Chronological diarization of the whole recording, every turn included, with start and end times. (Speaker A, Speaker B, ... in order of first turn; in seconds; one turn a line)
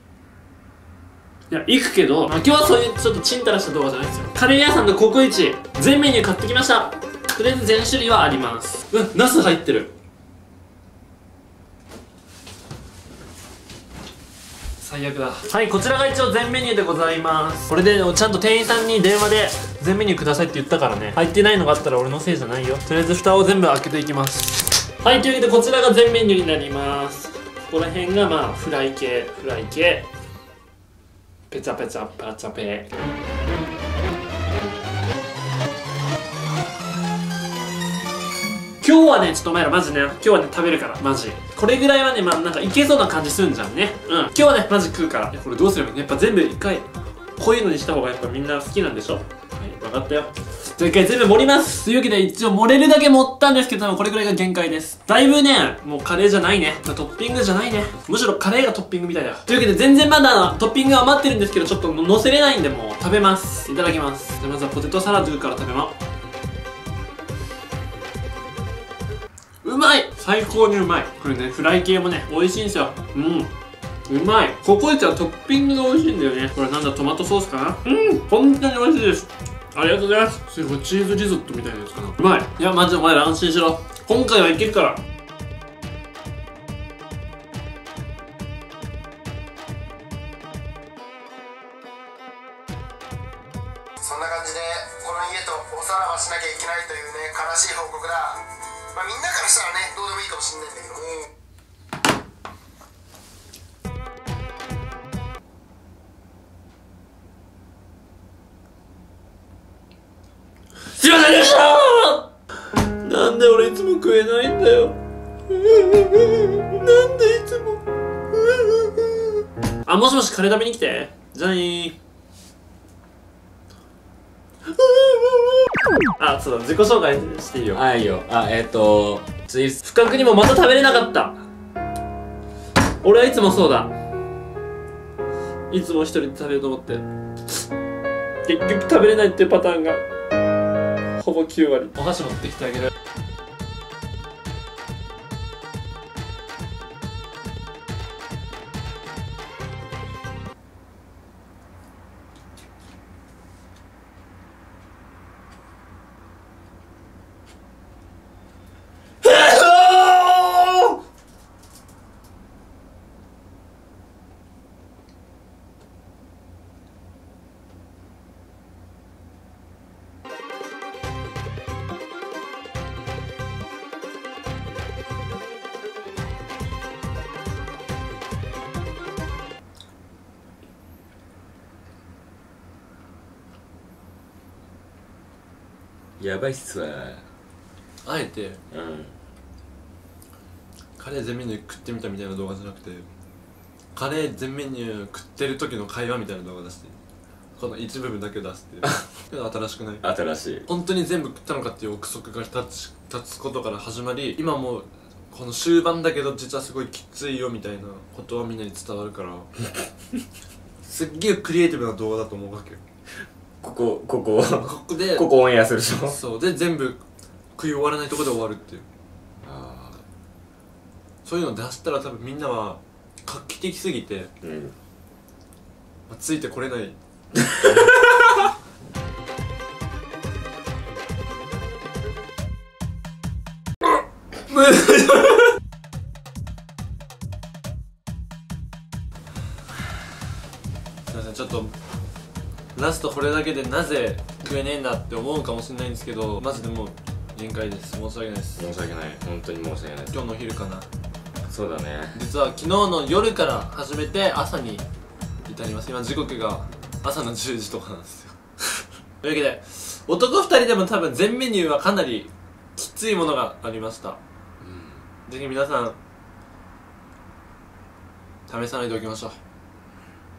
Speaker A: 1.5-9.9
Speaker A: 14.8-30.1
Speaker A: 31.5-32.9
Speaker A: 38.8-66.0
Speaker A: 69.6-73.5
Speaker A: 74.1-85.0
Speaker B: 94.0-101.3
Speaker A: 110.9-112.3
Speaker A: 112.8-115.0
Speaker A: 115.5-117.8
Speaker A: 118.4-119.2
Speaker A: 119.8-122.0
Speaker A: 124.8-125.6
Speaker A: 126.2-127.8
Speaker C: 127.7-129.8
Speaker A: 129.8-131.4
Speaker A: 133.0-133.9
Speaker A: 135.7-137.0
Speaker A: 138.4-140.0
Speaker A: 141.2-142.9
Speaker A: 159.2-161.0
Speaker C: 186.2-187.2
Speaker D: 188.1-188.6
Speaker C: 188.7-189.2
Speaker D: 191.0-193.1
Speaker D: 193.9-196.9
Speaker D: 197.6-200.0
Speaker C: 200.0-200.7
Speaker D: 200.7-209.5
Speaker D: 210.8-212.8
Speaker C: 213.6-216.2
Speaker D: 214.6-215.3
Speaker D: 216.1-217.0
Speaker D: 217.6-218.8
Speaker C: 219.4-220.0
Speaker D: 221.2-224.3
Speaker C: 224.4-224.8
Speaker D: 226.1-227.0
Speaker D: 234.5-235.5
Speaker D: 241.1-241.7
Speaker D: 242.8-248.7
Speaker C: 248.6-250.2
Speaker D: 250.1-250.9
Speaker C: 251.5-252.2
Speaker D: 252.2-254.8
Speaker A: 254.0-254.6
Speaker D: 255.5-258.3
Speaker A: 259.2-259.6
Speaker D: 259.4-264.2
Speaker A: 262.9-264.1
Speaker C: 264.6-265.0
Speaker D: 265.3-265.9
Speaker D: 268.5-269.3